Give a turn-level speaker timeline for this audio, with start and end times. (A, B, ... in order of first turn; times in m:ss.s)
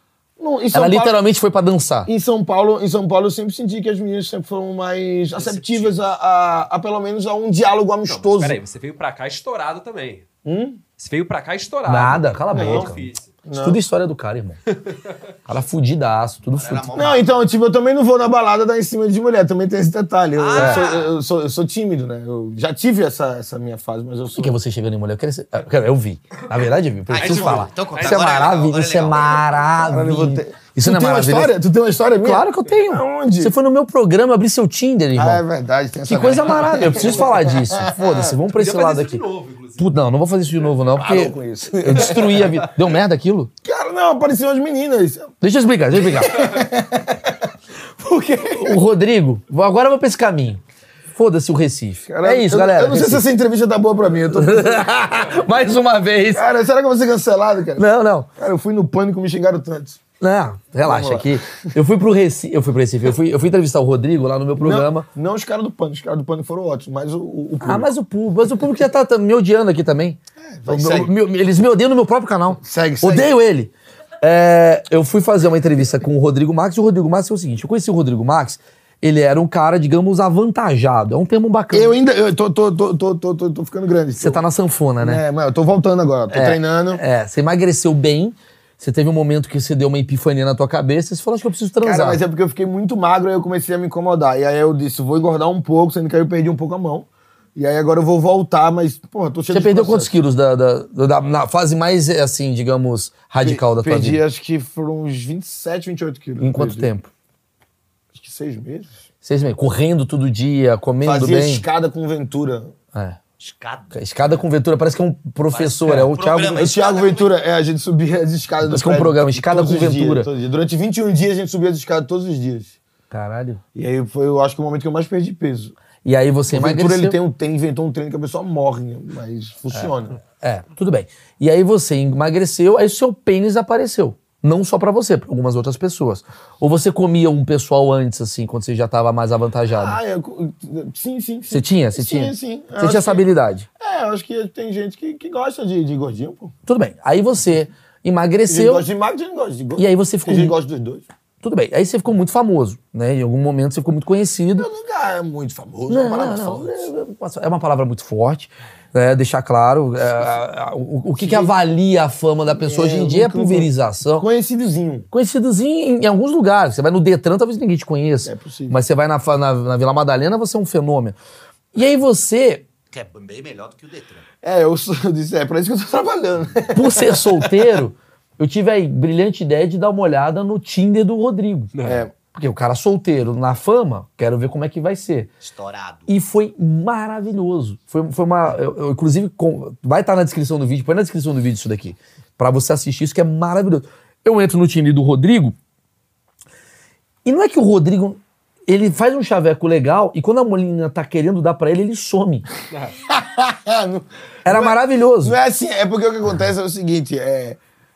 0:00.4-0:01.2 A
0:00.7-0:02.1 B
0:02.1-0:08.6 A
0:05.4-0:06.1 C
0:08.1-0:10.3 C
0:10.4-0:10.8 A
0:11.0-0:13.3 C
0:11.8-0:14.6 B
0:12.5-0:12.9 A
0:13.4-0:13.8 A
0:14.8-0:15.2 C
0:15.5-0:17.1 B
0:16.5-0:17.3 D
0:17.0-0:24.6 A
0:20.4-0:21.1 D
0:20.6-0:20.9 B
0:24.4-0:31.6 B
0:27.1-0:29.5 D
0:27.2-0:28.6 C
0:29.8-0:33.5 A
0:32.2-0:35.4 B
0:35.2-0:38.4 A
0:36.1-0:39.2 B
0:36.5-0:37.4 C
0:38.5-0:39.9 C
0:39.8-0:43.5 B
0:41.0-0:42.7 A
0:43.6-0:45.3 A
0:45.4-0:46.5 B
0:45.9-0:48.8 A
0:48.6-0:53.2 B
0:52.1-0:55.1 A
0:54.3-0:56.5 B
0:56.3-1:00.0 A
0:57.8-0:58.3 B
1:00.2-1:05.1 B
1:00.8-1:01.7 A
1:04.6-1:07.9 A
1:07.6-1:22.0 B
1:10.4-1:11.1 A
1:12.6-1:13.3 A
1:21.7-1:24.4 A
1:24.2-1:25.2 B
1:25.0-1:27.0 A
1:26.3-1:32.2 B
1:31.8-1:40.2 A
1:39.5-1:44.2 B
1:43.4-1:46.9 A
1:46.4-1:47.1 B
1:48.2-1:48.9 A
1:49.2-1:51.7 B
1:51.0-1:52.7 A
1:52.9-1:53.2 B
1:53.4-1:54.0 D
1:53.9-1:56.8 B
1:55.5-1:57.3 D
1:56.6-2:02.8 A
1:58.6-2:00.3 B
2:03.1-2:03.6 B
2:03.7-2:05.7 A
2:06.0-2:07.2 B
2:06.5-2:10.2 A
2:09.7-2:20.0 B
2:19.7-2:23.3 A
2:21.5-2:23.7 B
2:23.8-2:26.5 A
2:26.7-2:28.9 B
2:28.5-2:31.0 A
2:29.8-2:30.6 B
2:31.4-2:34.7 B
2:34.6-2:36.9 A
2:35.9-2:44.3 B
2:41.2-2:41.5 A
2:42.5-2:45.1 A
2:45.1-2:51.2 B
2:48.2-2:48.8 A
2:51.7-2:52.6 B
2:52.9-2:54.2 D
2:54.4-2:57.5 A
2:56.7-3:01.7 B
3:01.7-3:02.0 C
3:01.8-3:02.1 A
3:02.3-3:05.3 B
3:05.4-3:06.1 D
3:06.1-3:15.6 B
3:17.2-3:22.4 B
3:23.0-3:27.6 A
3:24.5-3:25.4 B